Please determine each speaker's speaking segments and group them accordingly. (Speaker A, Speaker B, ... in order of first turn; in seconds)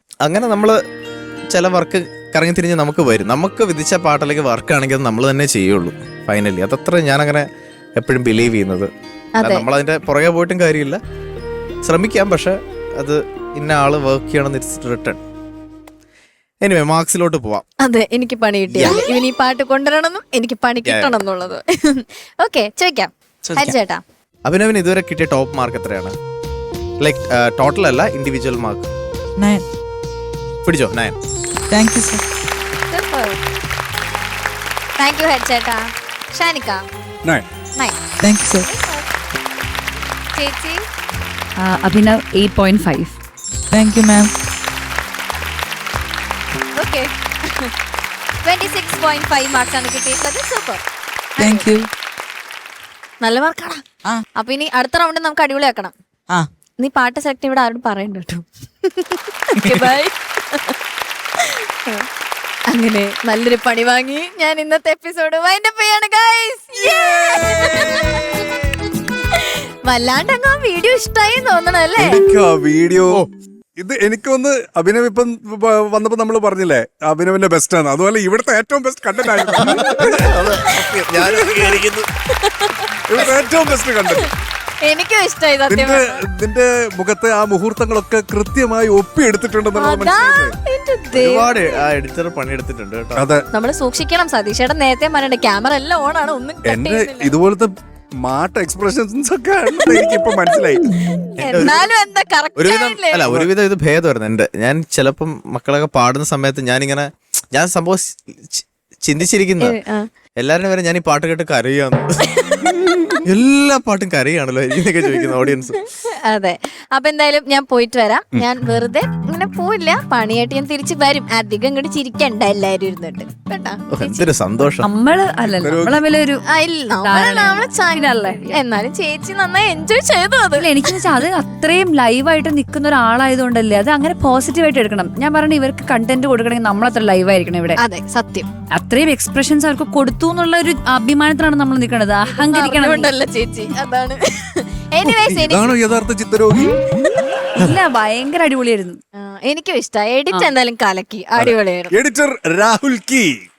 Speaker A: 0.2-0.8, 1.5-11.0, 11.8-15.2, 16.6-17.6, 18.7-19.0, 20.9-21.1, 24.4-26.2, 27.0-28.9, 30.6-31.2, 79.5-82.0, 91.1-93.3, 101.4-101.8, 102.6-109.8, 110.4-112.0, 113.2-115.8, 123.9-124.9
Speaker B: 9.4-9.6, 17.8-24.0, 32.9-33.4, 35.0-36.8, 38.6-39.1, 40.3-40.9, 46.7-47.7, 48.4-50.8, 51.4-51.7, 53.2-53.8, 54.4-55.9, 56.8-60.7, 61.4-62.1, 62.7-68.4, 69.3-72.2, 82.4-83.3, 84.8-86.2, 89.8-91.8, 93.5-97.3, 101.4-103.2, 109.6-110.1, 112.4-112.7, 116.3-124.3, 126.5-131.0, 137.8-138.5, 142.3-145.8, 149.2-151.9
Speaker C: 23.5-23.7, 29.4-29.6, 31.7-32.2, 38.2-38.7, 43.7-44.3, 51.4-51.9, 59.6-59.9
Speaker D: 41.6-43.1, 124.8-126.4, 127.0-128.6, 130.6-137.8, 138.7-143.1, 147.6-149.0
Speaker E: 72.0-73.2, 73.8-81.8, 83.1-84.3, 85.7-90.5, 93.2-93.4, 96.7-100.9, 103.2-103.5, 125.6-126.0, 145.0-146.8, 151.4-153.3